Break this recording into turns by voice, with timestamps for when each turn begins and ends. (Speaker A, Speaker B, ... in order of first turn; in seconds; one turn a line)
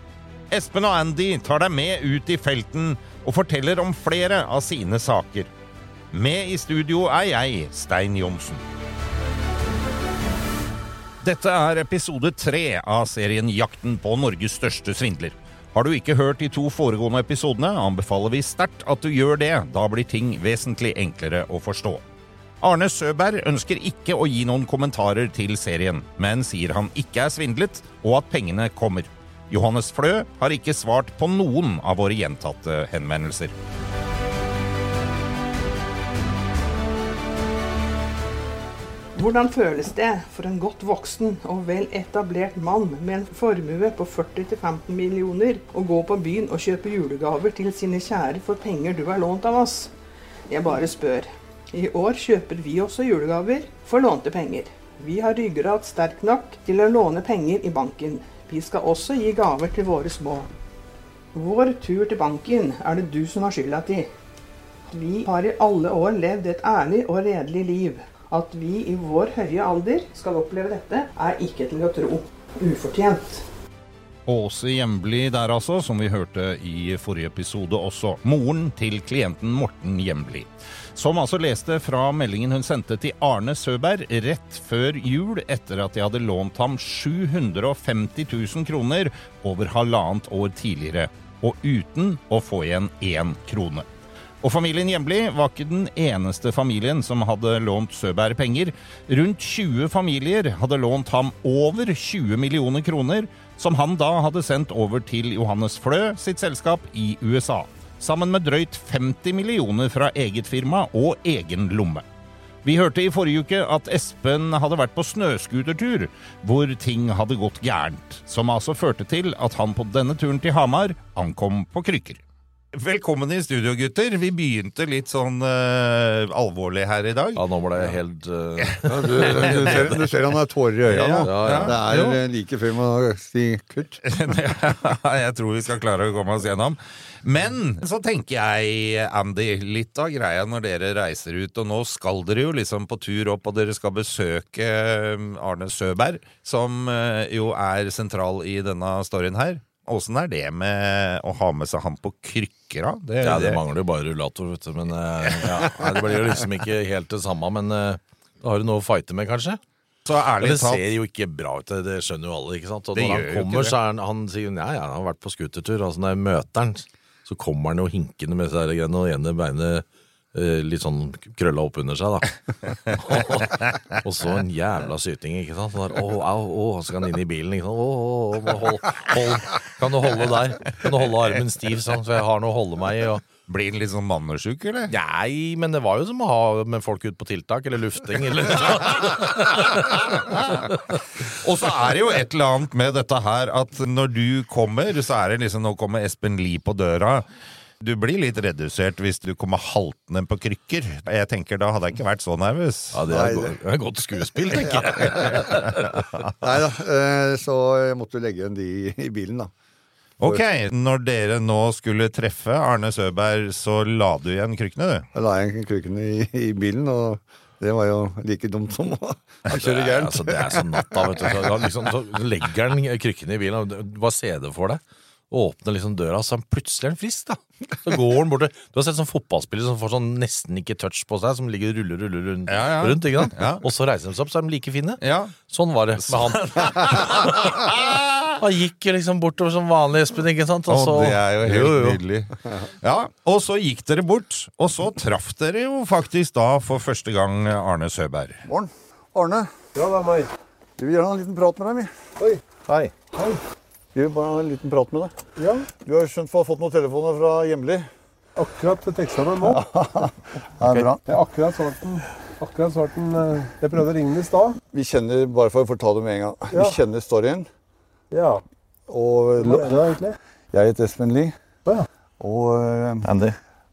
Speaker A: 0.5-5.5
Speaker A: 6.1-8.6
Speaker A: 11.2-22.0
Speaker A: 22.6-33.5
Speaker B: 39.1-49.9
Speaker B: 50.5-60.5
Speaker B: 61.3-64.1
Speaker B: 64.9-73.5
Speaker A: 74.3-93.8
Speaker A: 94.4-112.0
Speaker A: 112.6-122.2
Speaker A: 122.7-127.4
Speaker C: 127.3-130.0
Speaker A: 128.8-129.9
Speaker D: 128.8-134.0
Speaker A: 130.9-131.8
Speaker C: 131.2-132.2
Speaker A: 134.1-153.6
Speaker C: 153.2-159.6
Speaker A: 155.2-155.7
Speaker A: 160.1-160.8
Speaker C: 160.4-172.3
Speaker A: 162.9-163.8
Speaker A: 172.9-174.0
Speaker C: 172.9-183.2
Speaker A: 183.5-184.9
Speaker C: 184.9-190.8
Speaker A: 189.7-190.6
Speaker A: 191.2-197.3
Speaker A: 197.8-203.0
Speaker C: 202.9-205.9
Speaker D: 203.1-203.6
Speaker D: 204.6-205.4
Speaker D: 206.4-209.5
Speaker A: 210.2-215.1
Speaker D: 215.1-221.7
Speaker C: 219.5-237.5
Speaker A: 232.5-233.6
Speaker A: 235.0-235.3
Speaker A: 236.1-238.4
Speaker C: 238.4-242.0
Speaker A: 240.7-242.3
Speaker A: 242.8-248.4
Speaker D: 248.4-249.5
Speaker E: 249.7-250.3
Speaker D: 250.8-251.9
Speaker C: 252.7-252.9
Speaker E: 253.1-253.4
Speaker D: 253.9-255.1
Speaker E: 255.3-255.7
Speaker D: 255.8-257.9
Speaker E: 258.4-259.6
Speaker D: 259.4-261.1
Speaker E: 261.1-264.6
Speaker D: 264.7-267.5
Speaker E: 266.5-266.8
Speaker E: 268.1-268.4
Speaker D: 268.9-269.7
Speaker E: 269.4-270.2
Speaker D: 270.5-271.3
Speaker D: 272.2-273.1
Speaker C: 273.0-273.4